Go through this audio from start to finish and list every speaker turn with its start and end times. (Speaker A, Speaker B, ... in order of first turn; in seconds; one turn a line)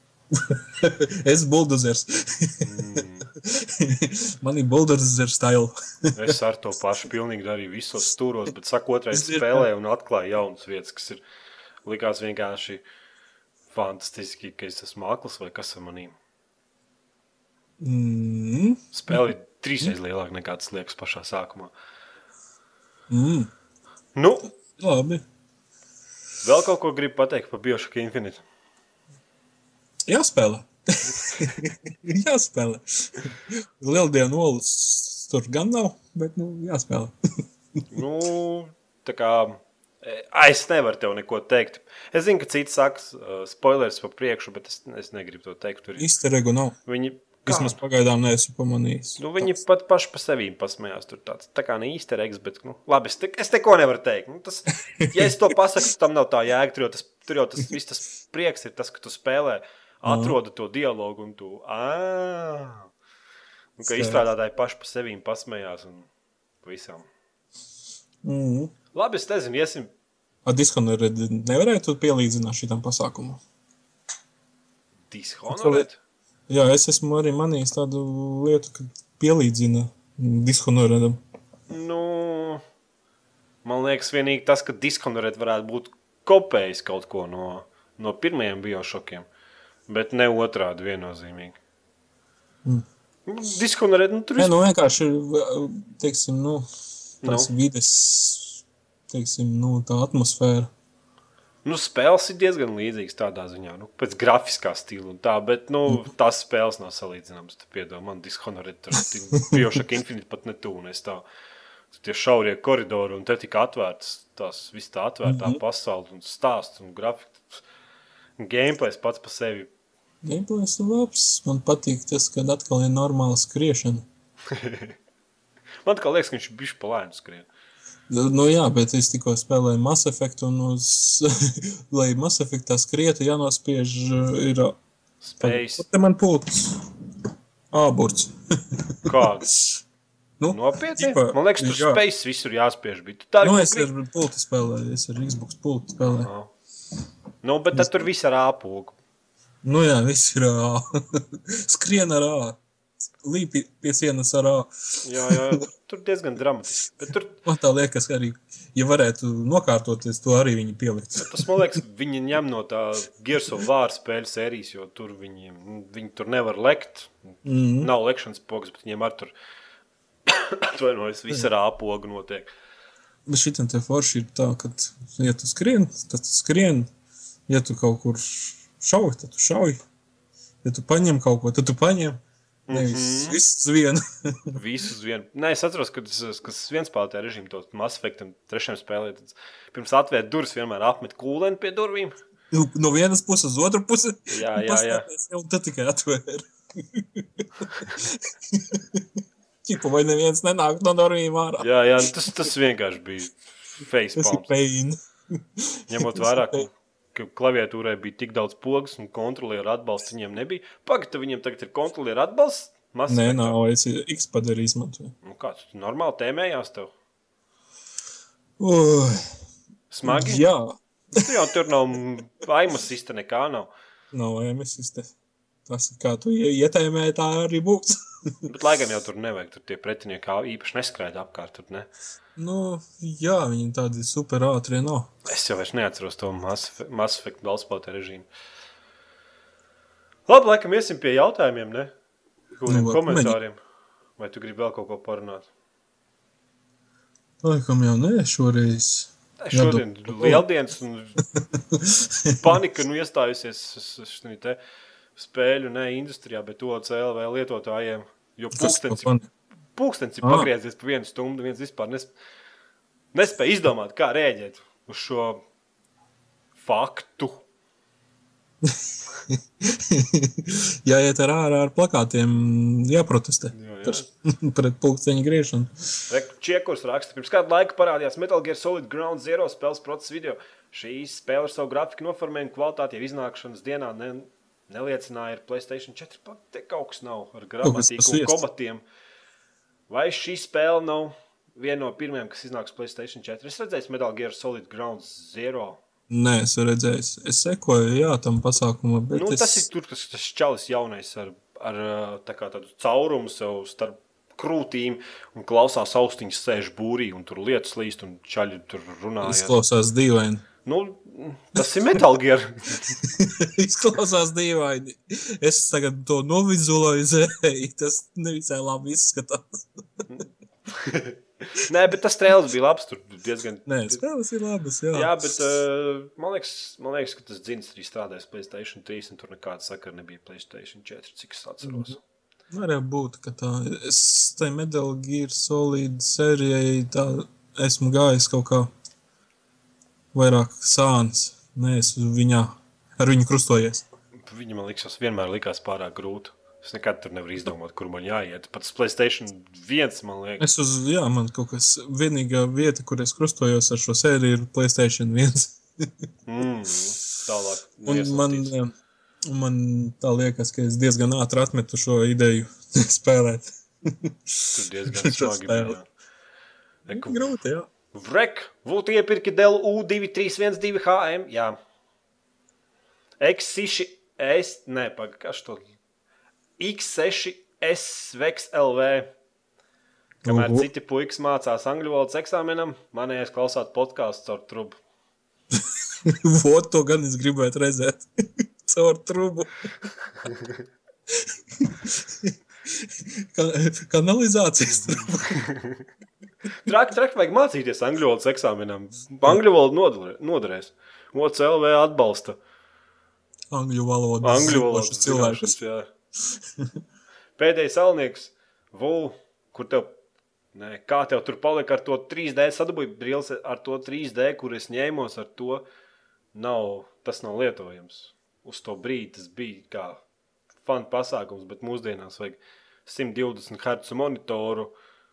Speaker A: 0.3-2.8
Speaker B: 2.6-3.3
Speaker A: 3.3-6.3
Speaker B: 6.1-11.2
Speaker A: 9.1-9.7
Speaker B: 11.8-12.8
Speaker B: 13.7-16.1
Speaker A: 17.8-19.9
Speaker B: 18.9-21.7
Speaker A: 23.1-23.5
Speaker B: 24.1-24.5
Speaker A: 24.8-25.2
Speaker B: 26.4-28.4
Speaker A: 30.1-37.1
Speaker B: 37.9-46.1
Speaker A: 46.0-46.8
Speaker B: 46.9-47.8
Speaker A: 47.5-49.5
Speaker B: 49.2-62.9
Speaker A: 60.0-60.4
Speaker B: 63.8-66.1
Speaker A: 63.8-64.2
Speaker B: 66.6-67.1
Speaker A: 68.2-68.7
Speaker B: 68.9-69.9
Speaker A: 70.4-73.4
Speaker B: 75.1-76.0
Speaker A: 75.5-75.9
Speaker A: 76.5-81.2
Speaker B: 81.7-82.6
Speaker B: 83.6-89.2
Speaker B: 89.9-91.6
Speaker B: 93.2-94.5
Speaker A: 94.4-96.7
Speaker B: 97.2-97.5
Speaker A: 97.2-100.7
Speaker B: 101.6-111.2
Speaker B: 111.9-117.6
Speaker A: 115.2-115.6
Speaker B: 118.4-119.7
Speaker A: 120.2-124.0
Speaker B: 124.5-125.0
Speaker B: 125.8-127.5
Speaker A: 128.1-134.8
Speaker B: 135.2-135.8
Speaker A: 135.4-136.9
Speaker A: 137.7-139.8
Speaker B: 139.0-139.5
Speaker A: 140.4-142.0
Speaker B: 140.5-143.9
Speaker A: 143.4-146.3
Speaker B: 146.0-146.5
Speaker B: 147.4-149.0
Speaker A: 147.7-148.1
Speaker A: 149.6-152.6
Speaker A: 153.2-155.4
Speaker B: 155.0-157.4
Speaker A: 157.4-161.8
Speaker B: 161.2-167.1
Speaker A: 167.4-167.9
Speaker B: 167.8-169.3
Speaker B: 170.3-172.5
Speaker A: 173.3-176.9
Speaker A: 177.5-179.8
Speaker A: 180.6-182.2
Speaker B: 182.7-183.4
Speaker A: 182.7-184.6
Speaker B: 184.5-192.2
Speaker A: 192.5-199.1
Speaker B: 194.3-195.1
Speaker A: 199.6-202.1
Speaker B: 201.6-204.5
Speaker A: 204.2-206.7
Speaker B: 205.9-213.6
Speaker A: 213.1-215.1
Speaker B: 215.2-216.9
Speaker A: 218.6-219.3
Speaker B: 219.9-220.4
Speaker A: 220.0-221.3
Speaker B: 221.1-223.7
Speaker A: 224.1-225.1
Speaker A: 225.7-228.3
Speaker B: 228.4-231.9
Speaker A: 232.3-235.1
Speaker B: 235.2-238.3
Speaker B: 240.3-241.9
Speaker B: 242.6-243.6
Speaker A: 242.7-243.4
Speaker B: 244.2-245.5
Speaker A: 247.4-250.4
Speaker B: 249.4-251.2
Speaker A: 251.3-252.6
Speaker B: 252.4-254.6
Speaker B: 255.2-259.1
Speaker A: 258.5-259.3
Speaker B: 259.8-262.1
Speaker A: 260.2-260.5
Speaker B: 263.1-265.4
Speaker B: 266.6-267.4
Speaker A: 268.6-275.7
Speaker B: 273.5-274.1
Speaker B: 276.1-288.8
Speaker A: 287.6-288.4
Speaker B: 289.9-295.8
Speaker A: 296.1-299.6
Speaker B: 299.1-309.6
Speaker A: 309.2-310.4
Speaker B: 310.6-313.0
Speaker A: 313.0-319.6
Speaker B: 320.1-324.0
Speaker A: 323.6-325.3
Speaker B: 324.9-332.0
Speaker A: 331.6-331.9
Speaker A: 332.5-338.7
Speaker A: 340.1-343.9
Speaker B: 344.2-350.5
Speaker A: 350.4-355.9
Speaker B: 356.3-358.5
Speaker A: 357.9-358.7
Speaker A: 359.2-365.8
Speaker B: 364.5-365.9
Speaker B: 366.9-367.3
Speaker A: 366.9-367.7
Speaker B: 367.9-371.6
Speaker B: 373.2-375.6
Speaker B: 376.6-379.1
Speaker B: 380.2-384.8
Speaker A: 380.2-380.7
Speaker A: 385.5-389.5
Speaker A: 391.1-395.5
Speaker B: 395.2-395.8
Speaker B: 396.6-402.4
Speaker A: 403.5-405.5
Speaker B: 404.2-405.9
Speaker A: 406.3-406.7
Speaker B: 407.4-409.9
Speaker B: 410.5-415.6
Speaker B: 416.3-420.0
Speaker B: 420.6-424.7